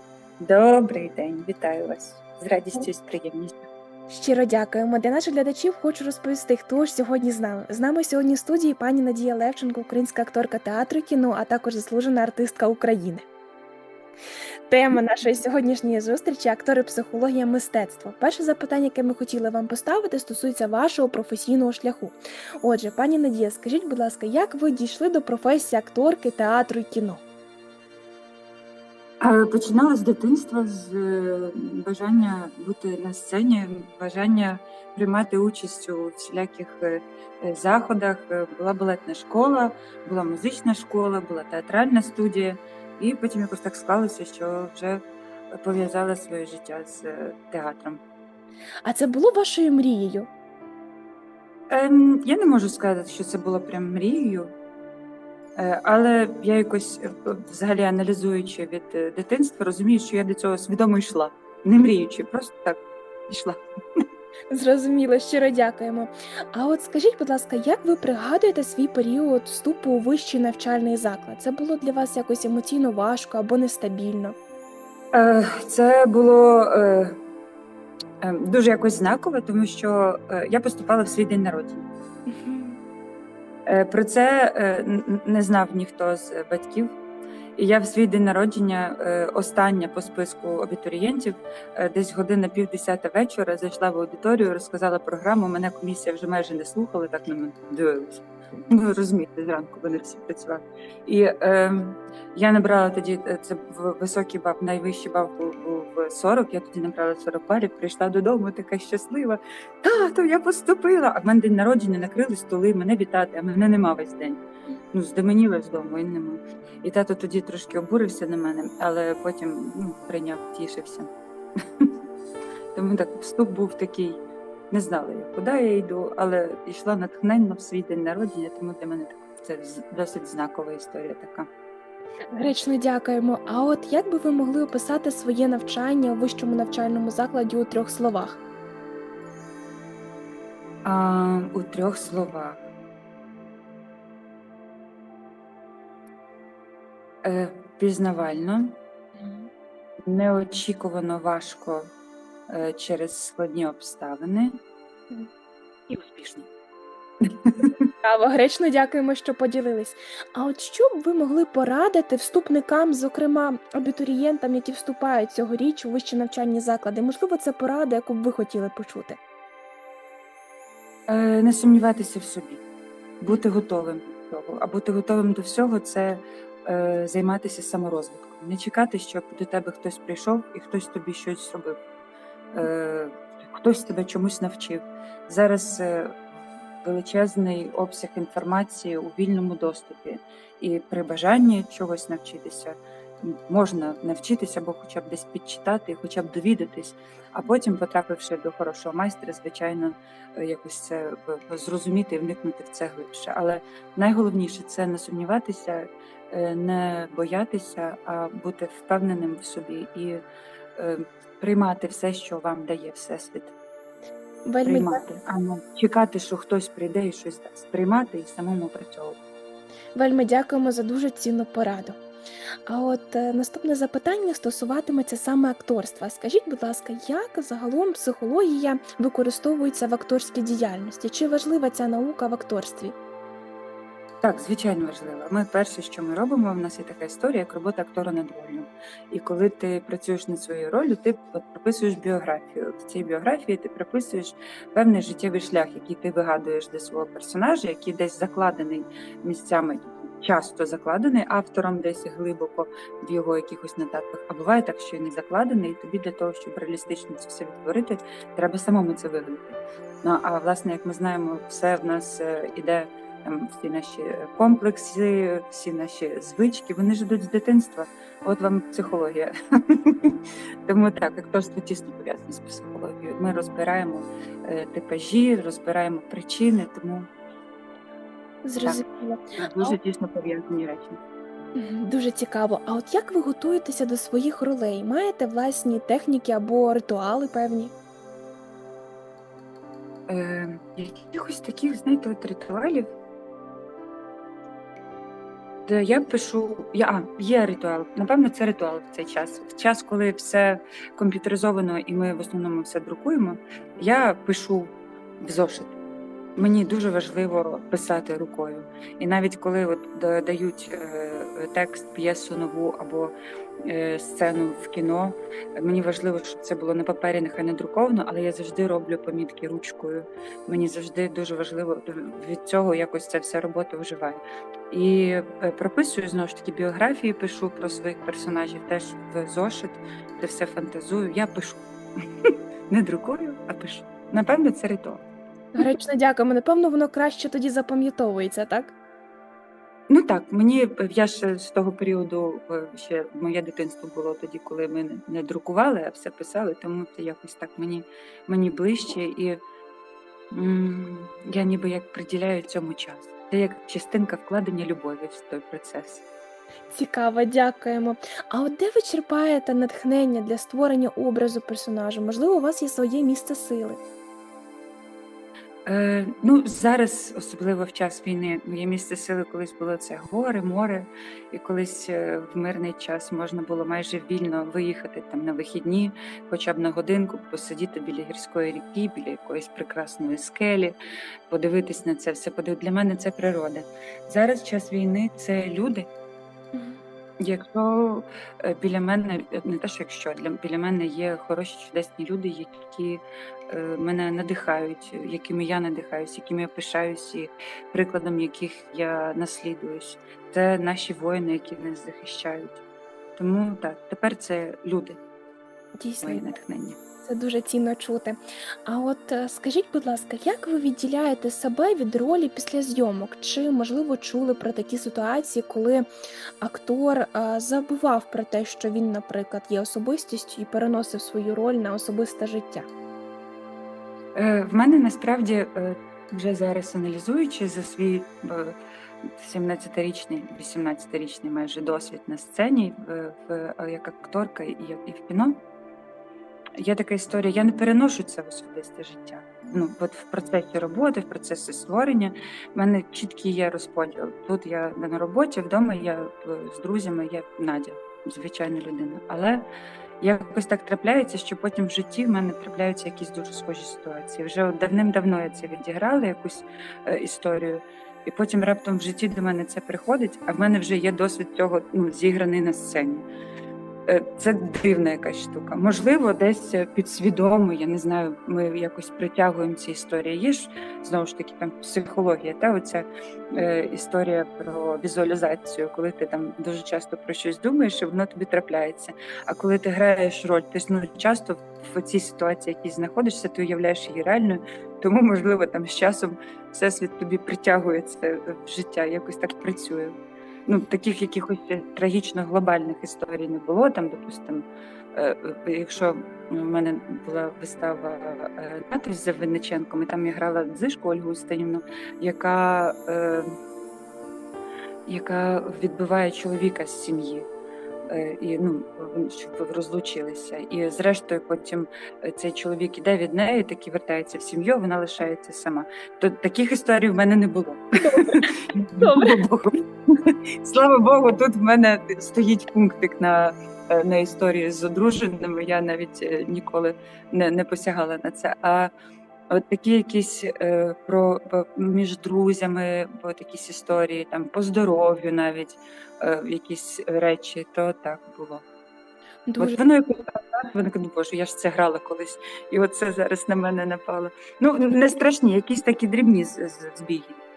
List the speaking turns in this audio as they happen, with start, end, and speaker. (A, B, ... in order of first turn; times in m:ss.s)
0:00.4-0:03.6 A
0:04.1-0:13.2 B
0:14.7-0:27.2 B
0:29.2-0:48.0 A
0:48.8-0:50.3 B
0:51.7-0:54.5 A
0:55.6-1:04.0 A
1:04.5-1:14.4 B
1:15.1-1:17.2 A
1:18.2-1:21.9 A
1:22.3-1:22.8 B
1:23.6-1:26.9 A
1:27.6-1:54.4 A
1:54.9-2:02.0 A
2:02.7-2:04.2 A
2:04.7-2:11.5 A
2:12.3-2:18.4 B
2:20.8-2:22.7 A
2:27.2-2:28.8 A
2:29.2-2:29.5 B
2:30.0-2:31.9 A
2:32.5-2:34.5 A
2:35.9-2:36.5 A
2:37.2-2:37.9 A
2:38.0-2:49.2 B
2:51.1-2:52.6 A
2:53.2-3:01.8 A
3:02.5-3:06.2 A
3:06.8-3:30.2 A
3:30.8-3:33.5 A
3:34.5-3:35.0 B
3:34.6-3:39.2 A
3:40.0-3:42.0 B
3:42.7-3:53.0 B
3:54.2-4:37.1 A
4:38.4-4:39.8 B
4:39.4-4:41.0 A
4:41.6-4:47.7 B
4:50.1-4:52.9 A
4:55.6-5:05.8 A
5:06.4-5:35.0 A
5:35.5-5:38.7 B
5:39.9-5:49.4 A
5:50.3-5:56.0 A
5:56.7-6:03.8 B
6:05.6-6:20.7 A
6:21.3-6:25.9 A
6:26.5-6:26.8 B
6:27.2-6:42.6 A
6:43.2-6:45.0 A
6:45.8-6:46.2 B
6:46.0-6:46.8 A
6:47.0-6:55.8 B
6:56.4-7:02.7 B
7:04.2-7:15.4 A
7:16.6-7:29.4 A
7:30.0-7:43.0 A
7:43.9-8:10.0 A
8:10.5-8:23.4 A
8:24.9-8:27.3 A
8:27.9-8:48.7 A
8:37.8-8:38.2 B
8:38.8-8:39.2 B
8:49.3-8:58.4 A
8:59.3-8:59.6 B
8:59.4-9:07.2 A